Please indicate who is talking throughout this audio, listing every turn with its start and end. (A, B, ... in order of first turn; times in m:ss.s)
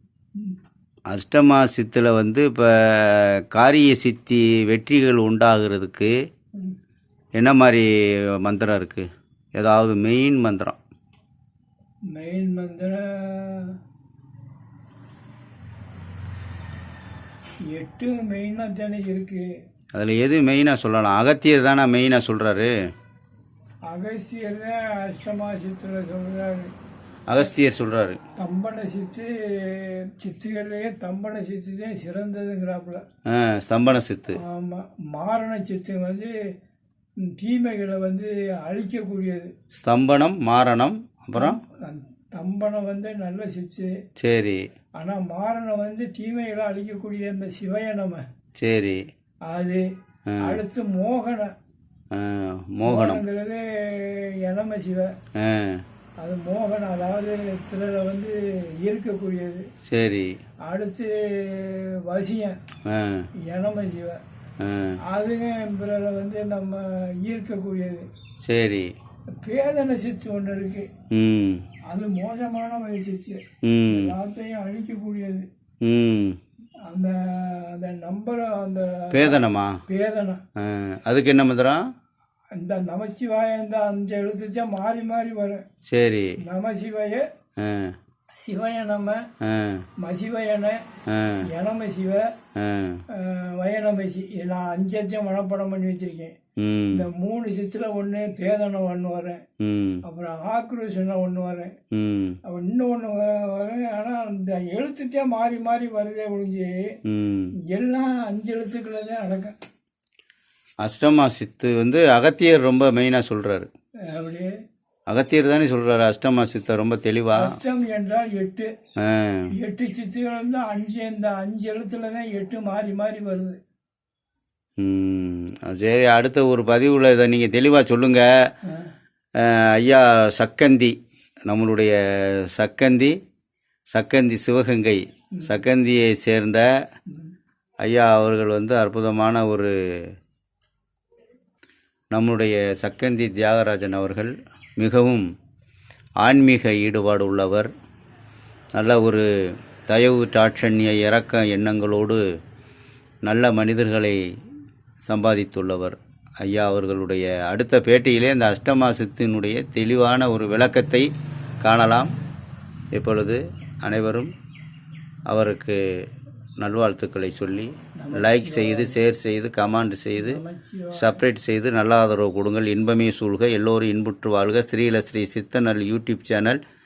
0:01.1-0:06.1 A
0:07.4-0:07.9 A
0:08.4-0:10.8 A
0:12.1-0:13.8 B
0:17.7-0:19.5 B
0:19.9-0:22.7 A
0:23.9-0:26.7 B
0:27.3-0:28.2 A
0:28.4-0:33.0 B
0:33.3-0:34.4 A
0:34.4-0:36.3 B
0:37.2-0:39.5 B
0:39.7-0:41.6 A
0:41.3-0:43.9 B
0:44.2-0:44.6 A
0:45.0-0:48.2 B
0:48.6-0:49.0 A
0:49.5-0:49.8 B
0:50.3-0:50.6 A
0:50.4-0:51.5 B
0:52.1-0:53.2 A
0:52.8-0:55.1 B
0:55.4-0:55.8 A
0:56.2-0:59.6 B
0:59.8-1:00.3 A
1:00.7-1:02.6 B
1:02.9-1:03.3 A
1:03.4-1:04.2 B
1:04.6-1:05.0 A
1:05.1-1:08.1 B
1:08.4-1:08.9 A
1:09.4-1:10.9 B
1:11.1-1:11.6 A
1:11.9-1:15.5 B
1:13.6-1:14.1 A
1:15.8-1:16.4 A
1:16.9-1:20.4 B
1:19.1-1:19.8 A
1:20.6-1:21.8 A
1:22.6-1:25.6 B
1:25.8-1:26.3 A
1:26.5-1:27.2 B
1:27.6-1:27.9 A
1:28.4-1:29.2 B
1:29.4-1:29.8 A
1:30.0-1:30.8 B
1:31.1-1:31.4 A
1:31.5-1:32.3 B
1:32.6-1:33.0 A
1:33.1-1:36.3 B
1:36.6-1:37.0 A
1:36.9-1:39.4 B
1:39.6-1:40.0 A
1:40.0-1:41.7 B
1:41.9-1:42.4 A
1:42.4-1:46.8 B
1:47.0-1:47.5 A
1:47.7-1:49.6 B
1:50.8-1:53.7 A
1:54.1-1:54.5 B
1:55.1-1:57.5 A
1:57.4-1:58.7 B
1:59.0-1:59.5 A
1:59.6-2:03.6 B
2:04.8-2:08.3 A
2:09.4-2:10.9 A
2:11.5-2:13.1 A
2:13.9-2:16.6 A
2:17.8-2:19.7 A
2:22.1-2:25.3 A
2:26.2-2:27.7 A
2:28.8-2:29.2 A
2:29.9-2:32.2 A
2:33.2-2:34.2 A
2:35.0-2:41.1 A
2:41.6-2:42.1 A
2:42.9-2:44.3 A
2:45.3-2:45.8 A
2:46.6-2:50.4 A
2:48.0-2:49.0 B
2:50.2-2:51.2 B
2:50.9-2:56.6 A